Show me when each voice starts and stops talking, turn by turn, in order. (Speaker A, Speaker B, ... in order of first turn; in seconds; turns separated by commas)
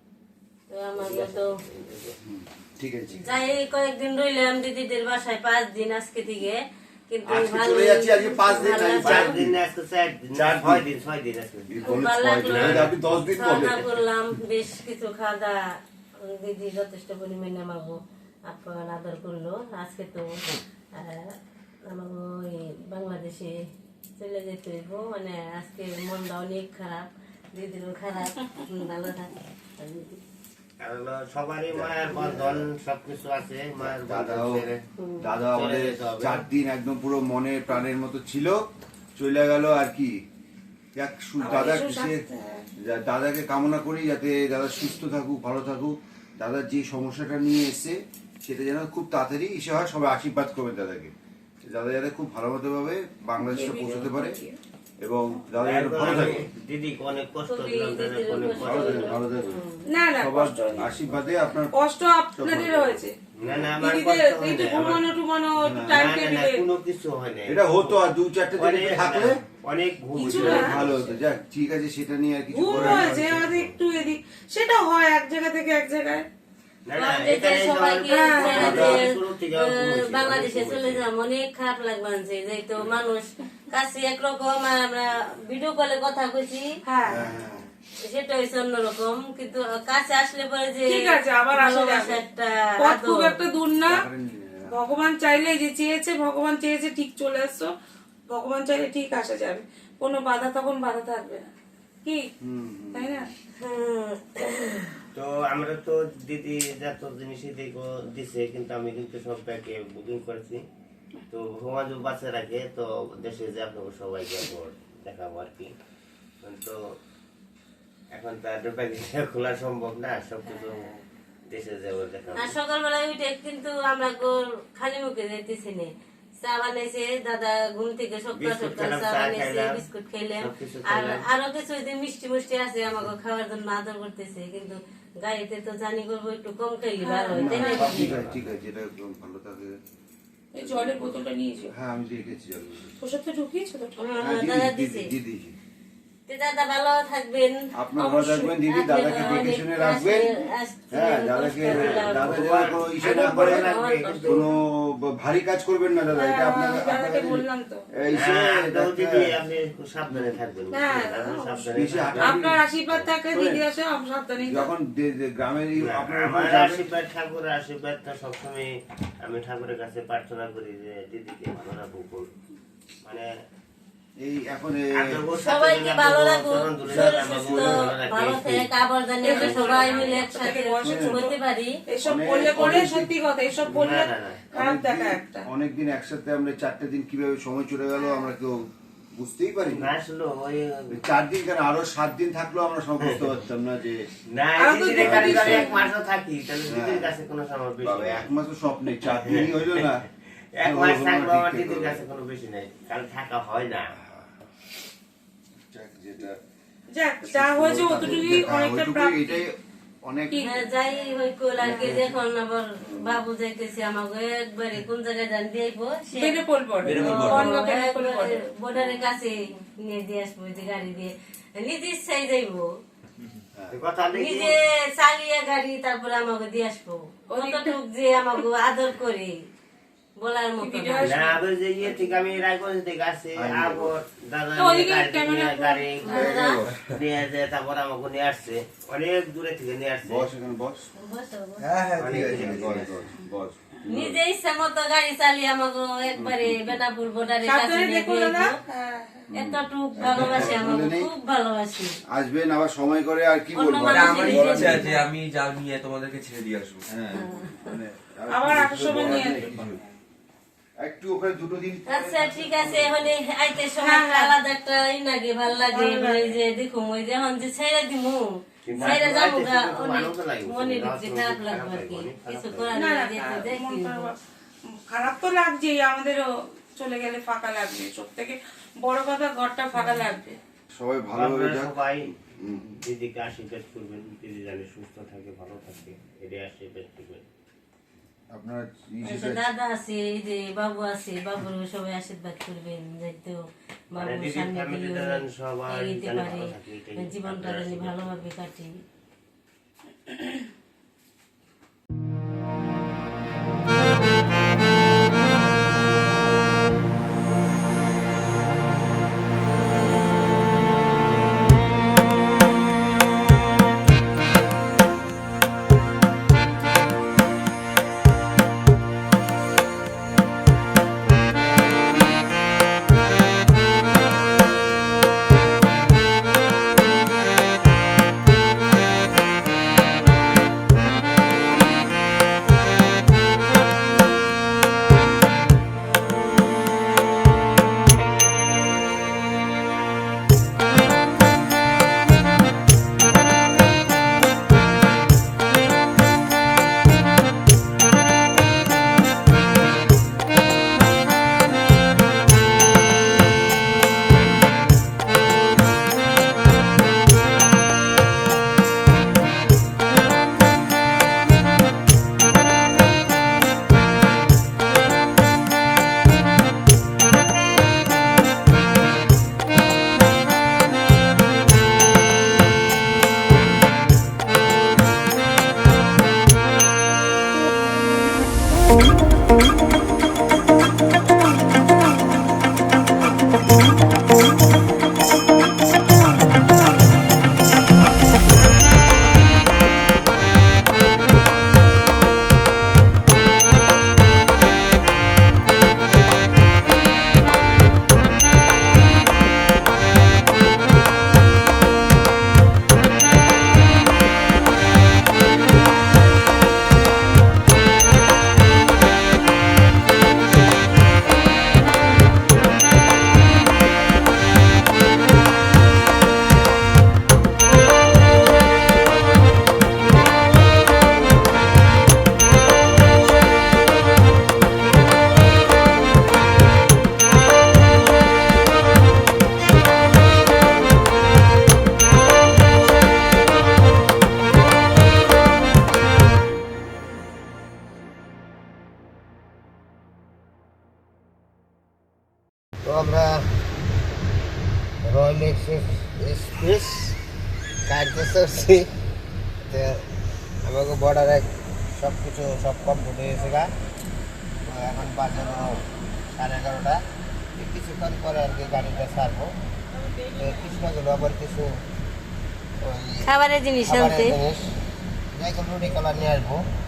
Speaker A: 0.7-1.5, Speaker B: 1.0-2.2, Speaker C: 2.3-3.4, Speaker A: 3.2-9.3, Speaker C: 7.2-9.6, Speaker B: 8.6-14.0, Speaker C: 10.3-10.8, Speaker C: 11.7-13.8, Speaker A: 11.8-15.6, Speaker A: 16.2-20.4, Speaker A: 20.9-21.3, Speaker A: 21.9-23.6, Speaker A: 24.2-30.2, Speaker B: 30.8-34.8, Speaker C: 31.7-32.7, Speaker C: 33.8-34.6, Speaker A: 35.0-35.3, Speaker C: 35.2-38.6, Speaker B: 35.4-36.4, Speaker C: 39.1-40.1, Speaker C: 41.0-42.2, Speaker D: 41.4-42.6, Speaker C: 42.8-51.1, Speaker C: 51.7-54.4, Speaker D: 53.5-54.6, Speaker C: 55.0-56.5, Speaker B: 55.6-59.1, Speaker A: 57.5-59.9, Speaker C: 58.5-59.5, Speaker D: 59.9-61.0, Speaker C: 60.2-61.8, Speaker D: 61.7-63.1, Speaker C: 62.4-63.7, Speaker B: 63.4-65.0, Speaker D: 63.8-66.6, Speaker C: 65.6-66.0, Speaker B: 65.8-68.0, Speaker C: 67.5-69.4, Speaker B: 68.6-71.2, Speaker D: 70.2-70.8, Speaker C: 70.2-73.5, Speaker D: 72.5-76.2, Speaker B: 72.7-73.8, Speaker B: 76.8-81.0, Speaker A: 76.9-86.7, Speaker D: 78.1-78.7, Speaker C: 78.5-79.0, Speaker D: 86.8-87.3, Speaker C: 87.0-87.6, Speaker A: 88.0-93.3, Speaker D: 90.8-92.2, Speaker D: 92.8-94.0, Speaker C: 93.8-94.8, Speaker D: 94.7-97.7, Speaker D: 98.3-101.5, Speaker C: 102.4-103.3, Speaker D: 102.9-103.3, Speaker A: 103.6-105.0, Speaker B: 105.1-110.6, Speaker B: 111.3-115.7, Speaker B: 116.4-116.8, Speaker B: 118.1-120.8, Speaker D: 120.5-121.0, Speaker B: 121.5-122.5, Speaker A: 122.3-125.9, Speaker A: 126.4-138.2, Speaker B: 128.3-129.8, Speaker B: 130.4-131.2, Speaker D: 137.0-138.1, Speaker C: 137.3-139.7, Speaker B: 137.8-138.5, Speaker D: 140.5-141.7, Speaker C: 140.6-141.2, Speaker C: 141.7-142.9, Speaker D: 143.0-144.0, Speaker A: 144.0-145.1, Speaker C: 144.2-145.5, Speaker A: 146.3-147.6, Speaker C: 147.8-150.3, Speaker D: 148.0-148.4, Speaker A: 148.1-152.4, Speaker C: 150.9-153.7, Speaker B: 151.6-154.4, Speaker D: 153.0-154.3, Speaker A: 153.4-154.3, Speaker C: 154.2-157.4, Speaker D: 156.1-157.8, Speaker C: 157.9-159.4, Speaker B: 158.1-163.1, Speaker C: 160.1-160.4, Speaker D: 160.7-161.7, Speaker C: 161.7-162.6, Speaker D: 162.2-164.7, Speaker C: 163.3-163.6, Speaker C: 164.4-166.8, Speaker B: 165.8-168.7, Speaker B: 169.2-172.3, Speaker C: 174.2-175.0, Speaker B: 175.0-178.7, Speaker A: 175.4-181.8, Speaker C: 176.8-177.9, Speaker D: 179.2-185.4, Speaker B: 179.4-180.1, Speaker C: 180.8-181.2, Speaker C: 182.0-183.1, Speaker B: 183.7-184.4, Speaker C: 184.5-188.6, Speaker D: 188.0-188.3, Speaker C: 189.1-189.9, Speaker B: 189.7-190.9, Speaker C: 190.9-194.0, Speaker B: 193.0-193.3, Speaker B: 194.3-198.2, Speaker D: 194.6-195.8, Speaker C: 194.9-195.9, Speaker C: 196.7-197.2, Speaker C: 197.8-200.0, Speaker B: 199.1-199.9, Speaker B: 200.5-203.9, Speaker C: 200.6-202.0, Speaker C: 204.0-204.3, Speaker C: 205.7-206.4, Speaker D: 206.9-209.4, Speaker C: 207.2-210.5, Speaker D: 210.3-212.0, Speaker A: 210.4-222.7, Speaker C: 211.6-212.2, Speaker C: 212.8-213.2, Speaker D: 216.1-218.5, Speaker E: 216.8-217.5, Speaker B: 223.7-224.6, Speaker A: 224.1-229.3, Speaker D: 227.3-227.8, Speaker A: 230.2-231.1, Speaker D: 230.6-232.1, Speaker B: 231.0-240.3, Speaker C: 233.3-233.9, Speaker D: 234.6-236.0, Speaker A: 236.1-236.6, Speaker C: 236.1-236.9, Speaker C: 240.0-240.9, Speaker A: 241.0-241.7, Speaker C: 241.6-244.2, Speaker B: 242.0-242.9, Speaker E: 242.0-242.8, Speaker A: 243.9-248.6, Speaker C: 246.2-246.8, Speaker D: 247.4-249.3, Speaker C: 249.3-251.1, Speaker A: 249.3-251.9, Speaker E: 250.1-250.5, Speaker C: 252.1-254.9, Speaker A: 253.5-255.0, Speaker E: 253.9-256.8, Speaker C: 256.9-259.8, Speaker A: 257.1-257.7, Speaker D: 258.3-259.8, Speaker E: 259.5-259.7, Speaker C: 260.8-263.1, Speaker A: 261.9-268.2, Speaker D: 263.8-264.4, Speaker D: 265.5-266.4, Speaker B: 268.6-272.8, Speaker C: 268.7-269.1, Speaker A: 268.8-274.1, Speaker D: 272.8-274.2, Speaker D: 274.7-280.4, Speaker C: 280.7-282.8, Speaker B: 281.1-282.1, Speaker B: 282.8-287.2, Speaker C: 288.3-289.5, Speaker A: 289.0-293.4, Speaker A: 293.9-298.7, Speaker B: 293.9-298.1, Speaker B: 442.6-443.3, Speaker B: 444.8-447.0, Speaker B: 447.6-448.7, Speaker B: 449.5-449.8, Speaker B: 450.4-453.5, Speaker B: 454.4-455.5, Speaker B: 456.1-456.8, Speaker B: 457.3-459.3, Speaker B: 460.1-461.5, Speaker B: 462.6-463.1, Speaker A: 463.1-464.1, Speaker B: 463.6-464.4, Speaker B: 465.1-466.4